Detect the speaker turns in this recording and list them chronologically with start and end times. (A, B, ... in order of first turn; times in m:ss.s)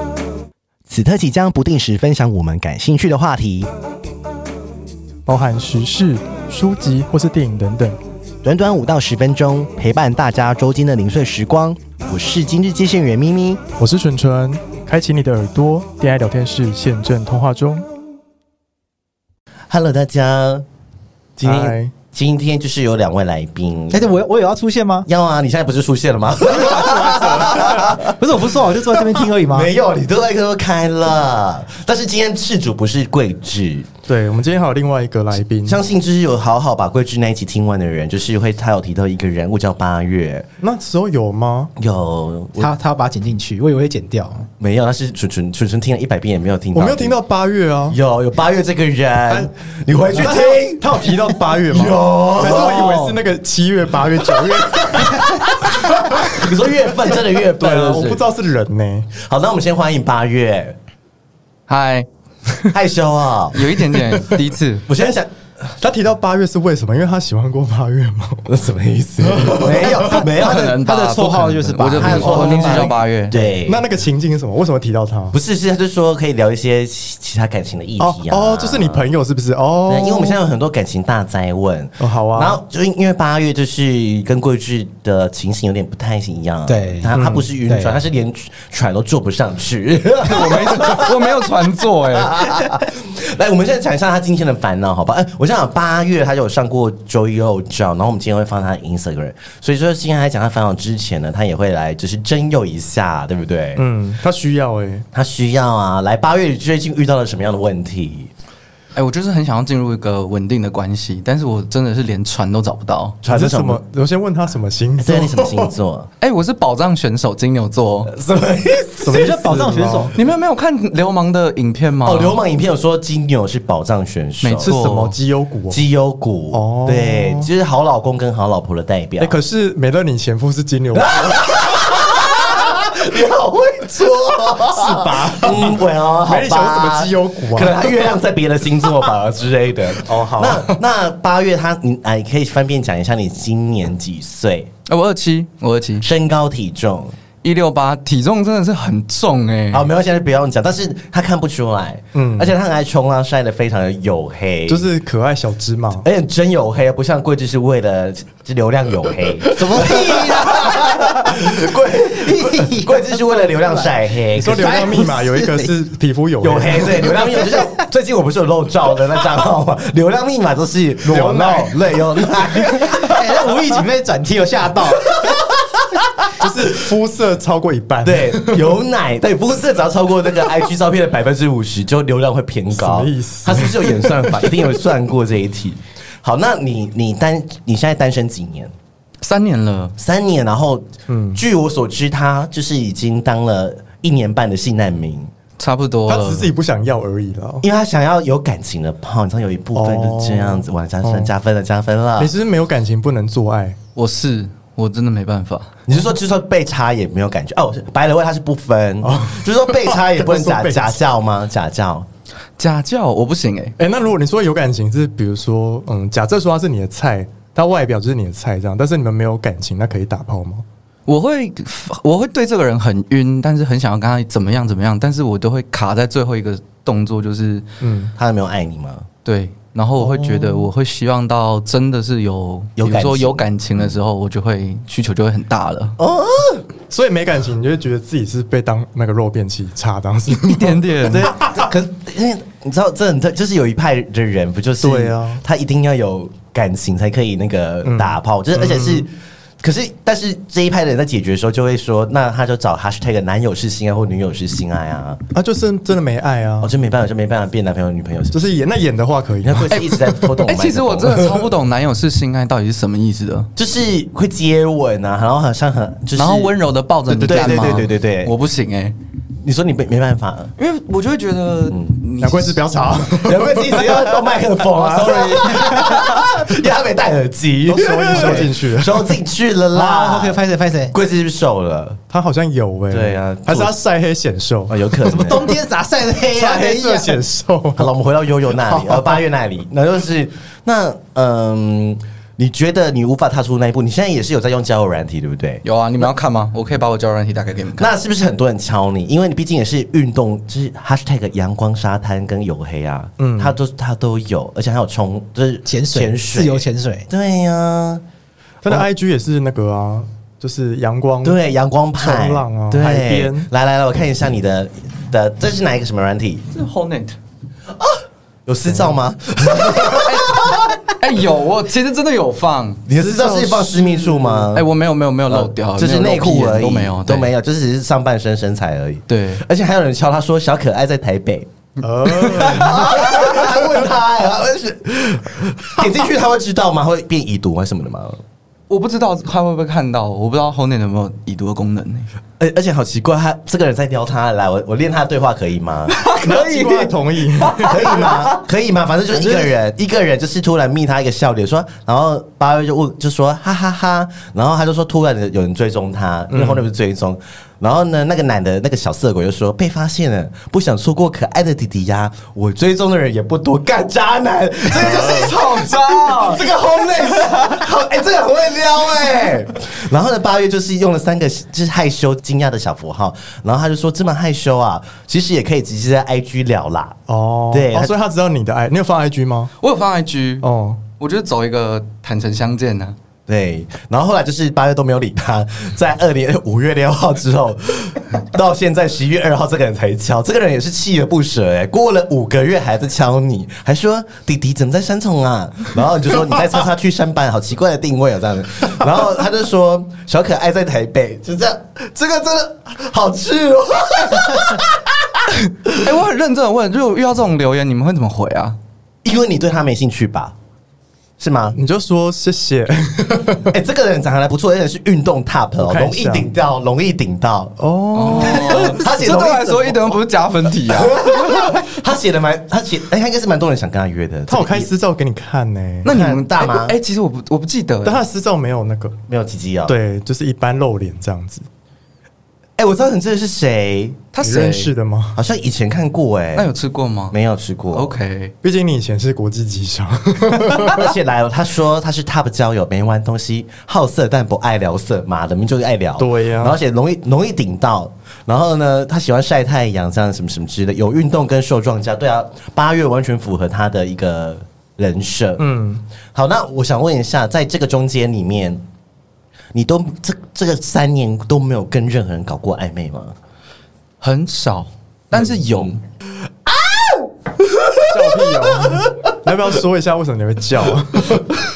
0:00.9-0:03.7 A
0:05.3-0:08.0 B
0:08.4-0:13.6 A
0:13.8-0:17.9 B
0:19.7-0:20.6 A
0:21.4-0:24.1 A
0:21.4-0:21.9 B
0:23.9-0:25.1 C
0:25.0-0:33.9 A
0:26.5-0:29.7 C
0:26.7-0:27.9 B
0:34.1-0:35.8 B
0:35.6-0:40.5 A
0:40.6-0:41.7 B
0:41.8-0:42.7 A
0:42.6-0:44.5 C
0:44.6-0:47.1 A
0:46.7-0:48.0 B
0:47.9-0:51.1 A
0:50.1-0:56.4 B
0:51.7-0:53.1 A
0:52.5-0:53.1 C
0:54.2-0:58.2 A
0:57.6-0:59.1 B
0:59.1-1:00.8 A
1:01.7-1:02.8 D
1:02.7-1:03.7 A
1:03.5-1:04.9 D
1:04.8-1:05.3 A
1:05.8-1:08.5 B
1:08.4-1:10.8 A
1:09.2-1:10.2 B
1:10.2-1:13.3 D
1:10.8-1:13.5 C
1:11.9-1:13.8 A
1:13.6-1:15.4 B
1:15.3-1:19.0 A
1:18.0-1:20.4 B
1:19.9-1:31.5 A
1:22.0-1:22.6 B
1:26.7-1:27.1 C
1:27.1-1:27.4 B
1:27.7-1:28.0 C
1:30.2-1:32.6 D
1:30.4-1:31.0 B
1:32.0-1:43.8 A
1:43.8-1:45.0 B
1:45.1-1:48.3 A
1:48.9-1:53.2 D
1:53.2-1:53.8 A
1:53.3-1:55.7 B
1:55.0-1:56.1 A
1:56.2-1:58.1 D
1:58.1-1:59.3 A
1:59.0-2:00.1 B
1:59.1-2:00.2 C
2:00.1-2:02.4 D
2:02.0-2:04.9 A
2:04.4-2:05.1 D
2:04.6-2:05.8 B
2:05.7-2:09.4 A
2:06.5-2:07.5 B
2:09.2-2:11.5 B
2:10.9-2:24.7 A
2:14.7-2:17.9 B
2:20.0-2:20.8 B
2:24.8-2:26.0 D
2:26.0-2:27.1 A
2:27.4-2:29.9 D
2:29.7-2:34.8 A
2:32.1-2:32.5 B
2:34.7-2:36.0 B
2:36.0-2:44.8 A
2:39.5-2:41.4 C
2:42.2-2:45.7 C
2:44.4-2:47.1 B
2:46.4-2:53.5 A
2:51.0-2:51.7 B
2:52.9-2:55.1 C
2:55.1-2:56.6 A
2:56.4-2:58.6 B
2:58.0-3:08.7 A
3:02.7-3:04.7 B
3:09.2-3:09.9 D
3:10.0-3:15.3 A
3:11.1-3:11.4 B
3:15.6-3:16.5 D
3:16.1-3:17.6 B
3:17.6-3:22.3 A
3:19.7-3:21.3 B
3:22.2-3:23.8 B
3:24.0-3:25.7 D
3:25.8-3:32.1 A
3:29.0-3:31.0 B
3:32.6-3:33.7 D
3:33.8-3:40.6 B
3:41.1-3:47.6 D
3:47.8-3:48.1 B
3:48.2-3:49.1 A
3:49.2-3:56.0 D
3:50.0-3:50.7 B
3:52.8-3:53.4 A
3:56.0-3:56.6 A
3:56.9-4:00.8 B
4:00.3-4:01.3 D
4:01.0-4:09.1 A
4:04.8-4:05.4 B
4:07.8-4:09.0 B
4:09.6-4:15.2 A
4:15.3-4:16.7 B
4:16.6-4:18.5 A
4:18.3-4:20.0 B
4:19.4-4:21.5 A
4:19.7-4:23.5 D
4:23.6-4:26.6 A
4:26.1-4:29.0 D
4:27.1-4:27.8 B
4:27.2-4:28.3 A
4:29.4-4:30.5 A
4:30.6-4:32.6 D
4:31.7-4:32.0 A
4:32.2-4:34.2 B
4:33.1-4:42.0 A
4:34.8-4:36.3 C
4:35.4-4:36.0 B
4:37.7-4:39.1 B
4:38.1-4:38.4 C
4:39.7-4:40.9 C
4:42.1-4:45.0 B
4:42.9-4:43.7 A
4:44.7-4:45.5 A
4:45.0-4:47.2 C
4:46.3-4:47.9 B
4:47.8-4:55.6 A
4:48.7-4:49.2 C
4:55.6-4:57.9 D
4:57.8-5:08.0 A
5:03.2-5:03.6 B
5:05.7-5:07.1 C
5:08.6-5:11.4 B
5:11.2-5:16.5 A
5:12.0-5:13.5 B
5:16.5-5:17.2 D
5:17.7-5:20.8 A
5:18.7-5:19.0 B
5:20.0-5:22.8 D
5:22.8-5:24.7 A
5:22.9-5:24.5 B
5:24.5-5:27.3 D
5:25.3-5:31.5 A
5:29.1-5:29.4 D
5:31.8-5:33.6 B
5:32.0-5:38.2 A
5:38.7-5:42.1 D
5:42.4-5:46.1 A
5:45.9-5:48.4 D
5:46.2-5:47.9 B
5:47.6-6:17.0 A
5:49.2-5:49.5 D
5:56.3-5:56.6 B
6:04.7-6:06.5 D
6:04.9-6:05.3 B
6:17.1-6:19.5 B
6:17.5-6:17.9 A
6:19.6-6:20.4 D
6:20.4-6:20.8 B
6:21.0-6:23.0 D
6:23.3-6:45.2 A
6:45.7-6:48.6 D
6:49.0-6:50.3 A
6:51.2-6:51.6 A
6:51.5-6:53.5 B
6:53.5-7:00.0 A
6:55.6-6:56.3 B
6:57.6-6:58.7 B
6:57.9-7:01.6 D
7:00.6-7:04.7 A
7:04.3-7:05.9 B
7:05.8-7:06.8 A
7:05.8-7:08.0 D
7:07.8-7:09.0 B
7:09.1-7:09.7 A
7:09.6-7:11.4 B
7:12.6-7:14.0 A
7:14.1-7:14.7 D
7:14.2-7:15.2 B
7:15.1-7:16.5 A
7:16.4-7:17.2 D
7:17.1-7:18.0 A
7:17.7-7:18.3 D
7:18.4-7:20.8 B
7:20.6-7:35.4 A
7:26.0-7:26.6 B
7:35.4-7:35.8 B
7:36.1-7:38.6 A
7:39.5-7:43.2 A
7:44.0-7:45.8 D
7:46.4-7:48.8 A
7:47.9-7:51.4 B